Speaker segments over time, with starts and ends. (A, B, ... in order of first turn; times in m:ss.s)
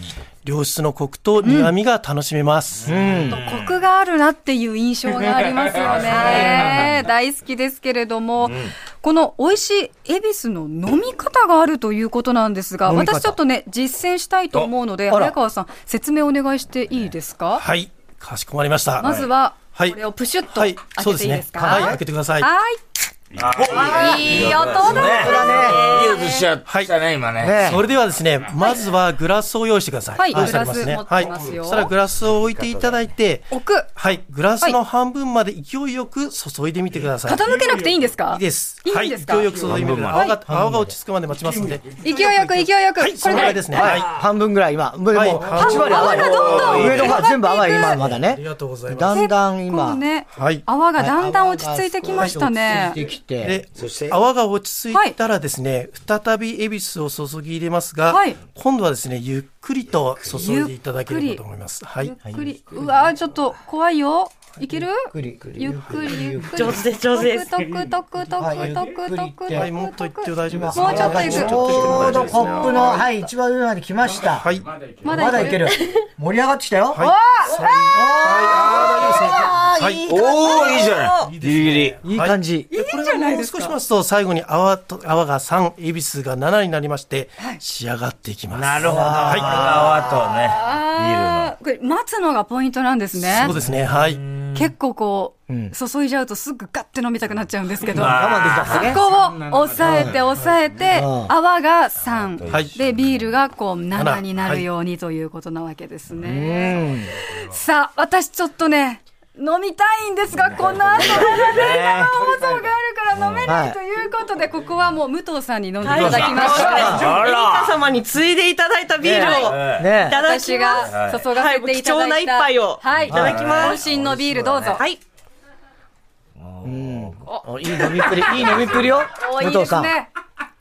0:00.4-0:03.0 A
0:01.4-0:01.7 B
0:02.9-0:03.4 C
0:03.3-0:17.6 B
0:06.1-0:06.8 D
0:08.4-0:08.7 D
0:12.8-0:13.4 C
0:15.1-0:15.3 C
0:17.6-0:19.2 A
0:19.0-0:22.8 B
0:20.5-0:22.5 A
0:21.6-0:22.0 C
0:23.3-0:27.8 D
0:23.6-0:25.9 C
0:23.7-0:26.4 B
0:27.4-0:27.8 C
0:27.6-0:37.5 A
0:30.2-0:31.9 B
0:33.5-0:33.9 B
0:37.2-0:39.5 B
0:38.3-0:44.1 A
0:39.7-0:40.3 D
0:40.1-0:40.4 B
0:42.0-0:43.8 B
0:43.7-0:50.0 C
0:45.1-0:46.4 A
0:45.6-0:48.0 B
0:46.0-0:47.2 D
0:48.2-0:49.1 A
0:49.1-0:53.0 B
0:50.4-0:50.6 A
0:51.0-0:53.6 C
0:53.4-1:02.1 A
0:53.8-0:54.1 D
0:58.1-0:58.4 B
1:00.3-1:01.4 B
1:02.0-1:13.0 B
1:05.0-1:06.8 C
1:06.6-1:07.5 E
1:08.4-1:09.7 C
1:09.5-1:12.4 A
1:10.5-1:14.5 C
1:11.8-1:12.4 D
1:14.4-1:14.7 A
1:15.0-1:15.8 B
1:15.0-1:17.0 C
1:16.9-1:20.0 A
1:17.0-1:17.9 B
1:17.9-1:20.7 C
1:20.1-1:22.0 D
1:20.1-1:21.3 E
1:21.2-1:29.9 A
1:22.0-1:22.7 C
1:22.7-1:23.8 B
1:28.5-1:31.5 D
1:28.8-1:30.0 C
1:30.2-1:33.5 B
1:33.3-1:34.2 A
1:34.3-1:34.6 D
1:34.5-1:57.0 B
1:35.5-1:35.7 C
1:37.8-1:39.0 D
1:37.9-1:39.0 C
1:39.8-1:40.2 C
1:40.9-1:41.3 C
1:42.4-1:42.9 D
1:42.5-1:42.8 A
1:44.0-1:44.6 A
1:46.2-1:47.1 C
1:50.5-1:52.0 D
1:51.4-1:52.1 C
1:53.1-1:53.5 D
1:53.5-1:53.8 C
1:55.8-1:57.8 D
1:55.8-2:03.8 E
1:56.7-1:57.0 C
1:59.0-2:00.2 C
1:59.2-1:59.9 D
2:00.1-2:04.8 B
2:00.9-2:01.2 D
2:02.9-2:04.8 D
2:03.1-2:03.4 C
2:06.4-2:07.2 D
2:06.6-2:09.9 C
2:07.3-2:08.3 B
2:08.0-2:09.0 D
2:09.1-2:10.1 B